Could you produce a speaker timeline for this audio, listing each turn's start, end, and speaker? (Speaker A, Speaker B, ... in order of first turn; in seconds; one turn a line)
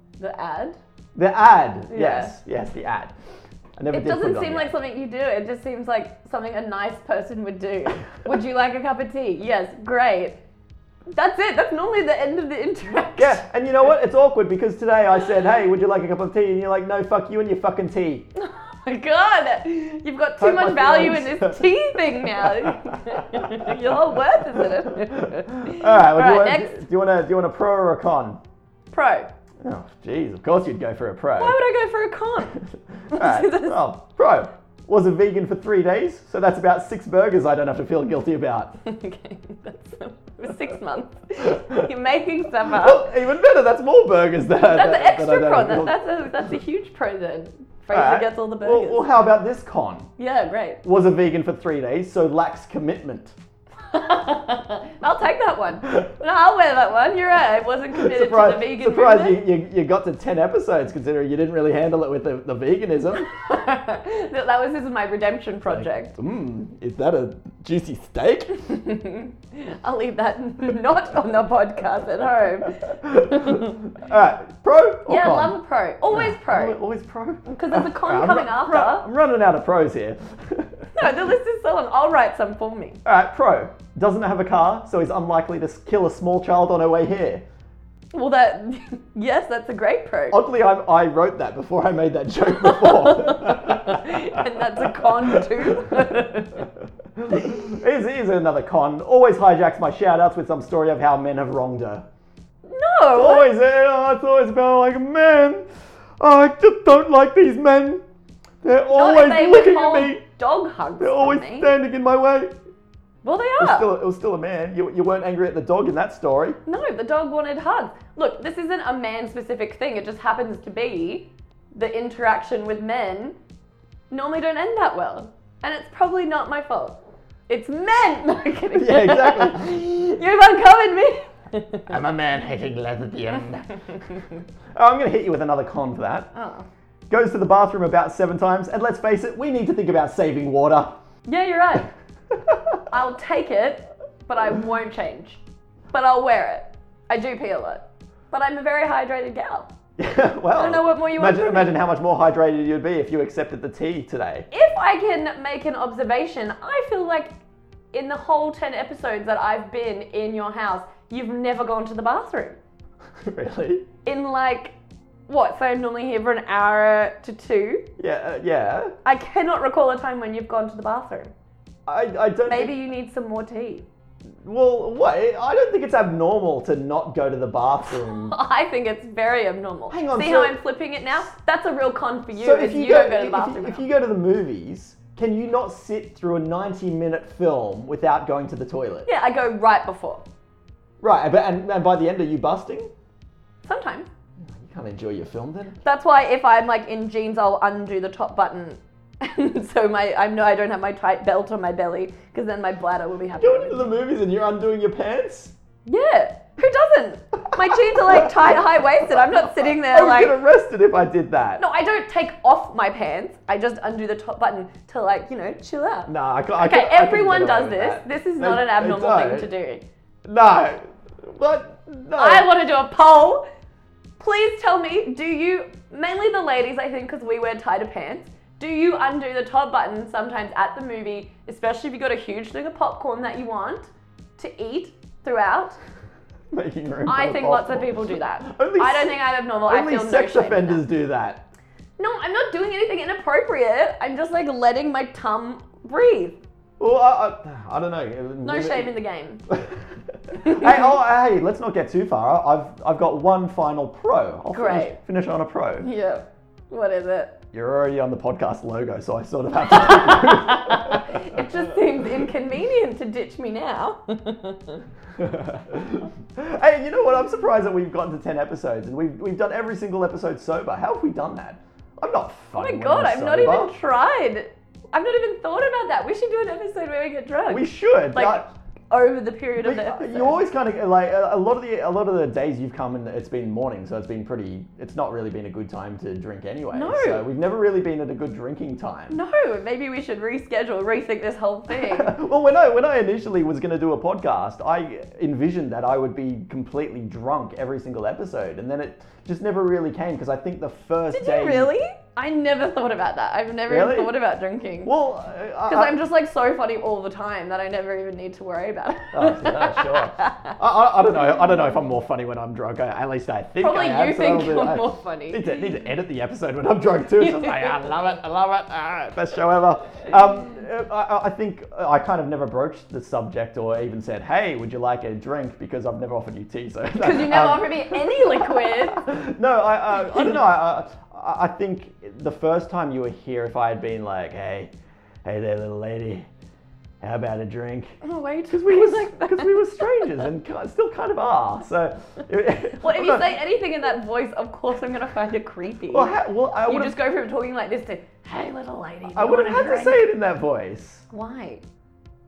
Speaker A: 0.2-0.8
Speaker B: 1.1-3.1
Speaker A: 1.9-2.3
Speaker B: 3.8-4.7
Speaker A: 3.9-10.4
Speaker A: 11.1-13.4
Speaker B: 13.2-18.3
Speaker A: 18.4-26.8
Speaker B: 20.4-21.7
Speaker B: 22.2-23.8
Speaker B: 24.6-28.4
Speaker A: 28.9-29.3
Speaker B: 29.6-31.6
Speaker A: 31.4-33.8
Speaker B: 33.1-38.8
Speaker A: 38.8-43.1
Speaker B: 42.6-46.0
Speaker A: 44.7-49.0
Speaker B: 47.9-50.1
Speaker A: 50.2-50.8
Speaker B: 50.8-53.4
Speaker A: 53.9-59.4
Speaker B: 57.9-63.4
Speaker A: 63.3-66.1
Speaker B: 65.7-68.8
Speaker A: 68.7-73.8
Speaker B: 72.8-75.6
Speaker A: 75.0-76.8
Speaker B: 76.1-80.9
Speaker A: 77.5-79.1
Speaker A: 81.0-83.0
Speaker B: 83.0-87.4
Speaker A: 88.1-90.4
Speaker B: 90.3-96.2
Speaker A: 92.5-96.7
Speaker B: 97.2-102.0
Speaker A: 102.7-103.5
Speaker B: 103.1-108.0
Speaker B: 108.6-110.2
Speaker A: 108.9-111.7
Speaker B: 111.0-112.5
Speaker A: 113.2-113.9
Speaker B: 113.6-116.6
Speaker A: 116.7-123.4
Speaker A: 124.1-127.0
Speaker A: 127.5-131.8
Speaker B: 128.7-129.8
Speaker B: 131.9-134.2
Speaker B: 134.7-136.3
Speaker A: 136.3-136.7
Speaker B: 137.1-141.0
Speaker A: 141.3-141.9
Speaker B: 142.3-142.8
Speaker A: 142.9-145.4
Speaker A: 145.9-149.7
Speaker B: 150.0-154.5
Speaker A: 150.5-151.8
Speaker A: 154.5-157.3
Speaker A: 157.9-162.6
Speaker B: 163.2-163.8
Speaker A: 164.0-164.7
Speaker A: 165.3-167.8
Speaker B: 168.0-168.9
Speaker A: 169.0-171.3
Speaker B: 171.9-172.7
Speaker A: 172.4-173.9
Speaker B: 174.4-178.3
Speaker A: 177.9-183.8
Speaker B: 179.9-180.6
Speaker B: 182.3-189.1
Speaker A: 189.1-190.2
Speaker B: 191.0-192.9
Speaker A: 193.6-194.1
Speaker B: 194.4-195.8
Speaker A: 195.8-203.9
Speaker B: 203.4-205.5
Speaker A: 205.8-210.3
Speaker B: 207.6-211.6
Speaker A: 211.6-219.8
Speaker B: 216.1-219.5
Speaker B: 220.2-222.5
Speaker A: 222.2-223.4
Speaker A: 224.2-235.8
Speaker B: 236.5-241.4
Speaker A: 237.1-240.8
Speaker A: 242.0-246.4
Speaker B: 246.8-248.9
Speaker A: 248.4-249.4
Speaker B: 249.5-249.8
Speaker B: 250.3-255.9
Speaker A: 250.3-250.9
Speaker A: 254.5-255.0
Speaker A: 255.8-257.4
Speaker B: 257.5-262.1
Speaker A: 259.6-264.8
Speaker B: 265.2-273.7
Speaker A: 272.6-280.4
Speaker B: 277.5-278.4
Speaker B: 279.6-289.2
Speaker A: 286.7-287.2
Speaker A: 289.1-292.1
Speaker B: 291.7-301.7
Speaker A: 301.1-304.9
Speaker B: 303.7-304.1
Speaker B: 304.8-306.0
Speaker A: 305.7-310.6
Speaker B: 309.1-334.7
Speaker A: 313.6-315.5
Speaker A: 317.2-317.8
Speaker A: 326.9-329.1
Speaker B: 335.2-336.3
Speaker B: 337.0-338.0
Speaker A: 338.0-340.2
Speaker B: 338.5-343.3
Speaker A: 342.8-350.1
Speaker B: 345.9-347.0
Speaker B: 349.1-351.0
Speaker A: 351.1-351.6